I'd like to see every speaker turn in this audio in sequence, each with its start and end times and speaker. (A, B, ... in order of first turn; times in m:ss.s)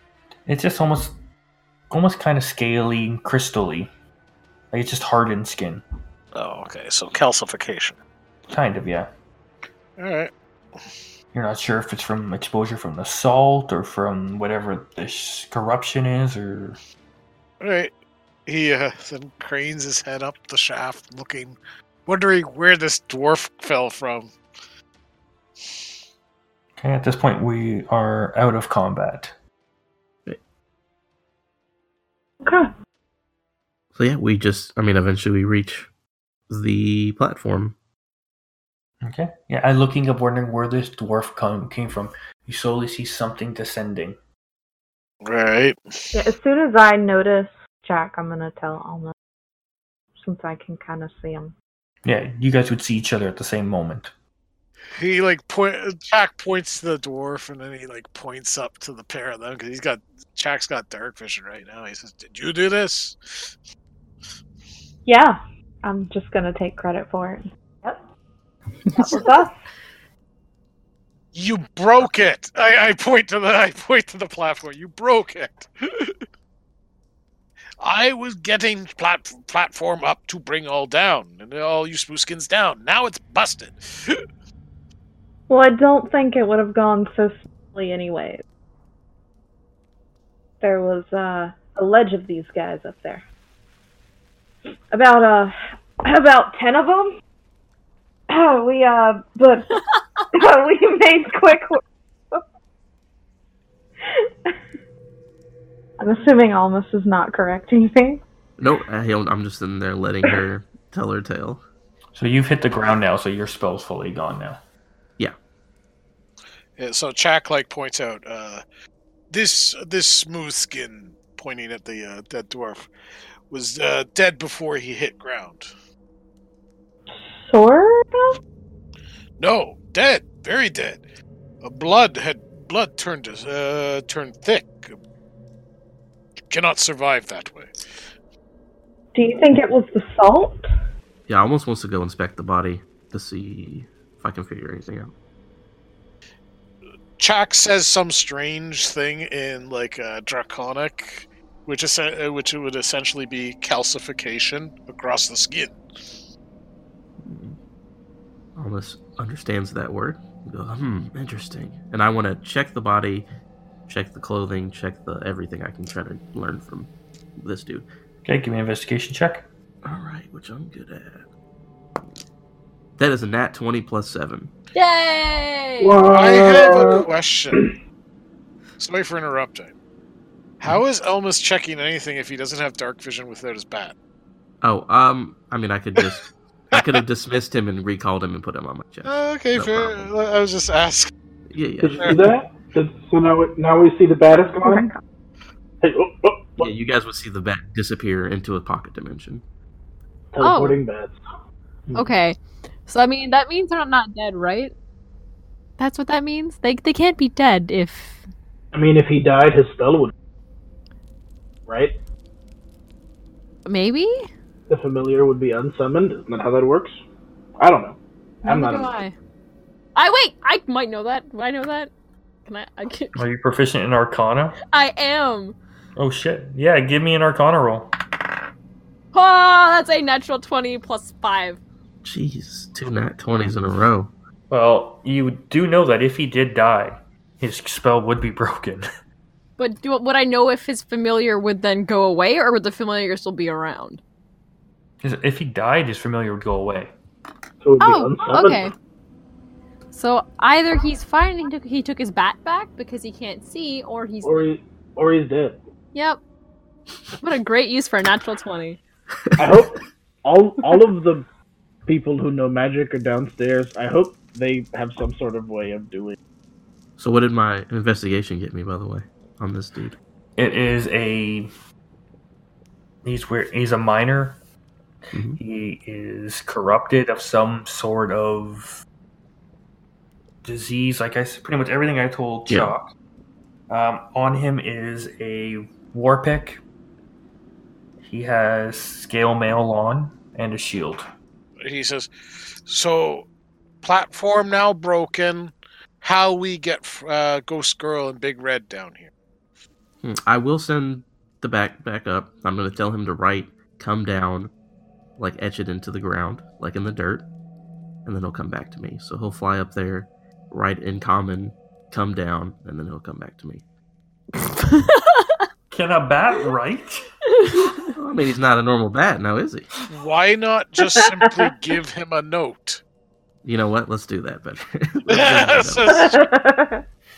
0:00.5-0:01.2 A
0:01.9-0:03.9 A
0:04.7-0:05.8 A
0:06.4-0:08.0 B
0:08.5-0:09.1 A
0:10.0-0:10.8 B
0:11.3-0:16.8 A
0:17.6-0:17.9 B
0:18.5-0:24.3 B
0:26.8-0:29.3 A
0:32.4-0:32.7 C
0:34.0-0:35.9 D
0:36.5-0:37.8 D
0:39.0-0:44.2 A
0:45.2-0:46.1 B
0:46.1-0:49.1 C
0:50.2-0:51.5 C
0:52.0-0:54.1 A
0:54.9-1:03.5 B
1:05.1-1:08.0 C
1:08.9-1:09.6 C
1:11.3-1:16.2 B
1:17.8-1:24.2 B
1:25.5-1:28.4 C
1:30.6-1:33.2 C
1:34.9-1:37.1 C
1:38.3-1:39.8 C
1:40.3-1:41.8 C
1:44.1-1:44.5 C
1:46.0-1:48.2 C
1:48.6-1:51.6 D
1:52.2-1:54.6 A
1:56.8-1:58.6 B
1:59.3-2:02.9 B
2:03.5-2:05.7 B
2:07.4-2:08.4 C
2:09.4-2:11.0 B
2:11.6-2:15.0 B
2:16.5-2:17.7 B
2:19.1-2:20.7 C
2:21.3-2:25.1 D
2:27.2-2:35.8 B
2:37.2-2:37.6 D
2:38.6-2:43.3 D
2:43.9-2:47.9 D
2:48.2-2:49.4 A
2:49.8-2:51.2 D
2:53.0-2:54.5 D
2:54.8-2:56.1 E
2:55.8-2:57.6 F
2:56.1-2:57.7 B
2:58.8-2:59.7 B
3:00.6-3:03.9 B
3:04.6-3:10.1 D
3:09.0-3:11.1 B
3:11.5-3:12.3 D
3:11.8-3:14.9 F
3:14.6-3:15.0 C
3:15.8-3:16.7 F
3:16.6-3:19.4 D
3:20.3-3:21.2 F
3:20.4-3:20.8 E
3:21.9-3:24.7 E
3:25.8-3:28.2 E
3:28.7-3:30.1 F
3:31.7-3:32.0 F
3:33.6-3:34.3 E
3:34.7-3:37.0 F
3:37.6-3:38.9 F
3:38.4-3:39.1 E
3:40.0-3:41.9 E
3:42.5-3:43.2 E
3:43.2-3:44.6 A
3:44.7-3:45.6 E
3:46.0-3:47.9 A
3:49.1-3:51.6 E
3:52.0-3:54.1 D
3:54.5-3:58.9 A
3:59.6-4:04.0 E
4:05.0-4:06.9 A
4:07.6-4:08.7 F
4:07.8-4:08.7 E
4:09.9-4:14.4 E
4:14.2-4:15.6 F
4:15.9-4:16.2 E
4:17.2-4:18.8 E
4:19.2-4:19.6 D
4:19.4-4:21.3 F
4:21.9-4:26.2 F
4:27.0-4:30.0 D
4:30.4-4:31.5 A
4:33.0-4:34.4 A
4:35.1-4:35.4 D
4:35.4-4:38.8 A
4:40.4-4:42.9 A
4:42.5-4:42.7 D
4:43.7-4:46.6 A
4:48.0-4:51.1 A
4:51.6-4:52.1 B
4:52.7-4:53.3 B
4:53.8-4:59.1 B
5:00.0-5:04.5 D
5:05.2-5:07.3 D
5:08.0-5:13.6 D
5:14.6-5:15.4 E
5:15.7-5:17.1 A
5:17.4-5:17.9 E
5:17.9-5:19.7 D
5:19.9-5:22.8 B
5:23.4-5:26.1 D
5:25.1-5:26.3 B
5:25.9-5:26.8 C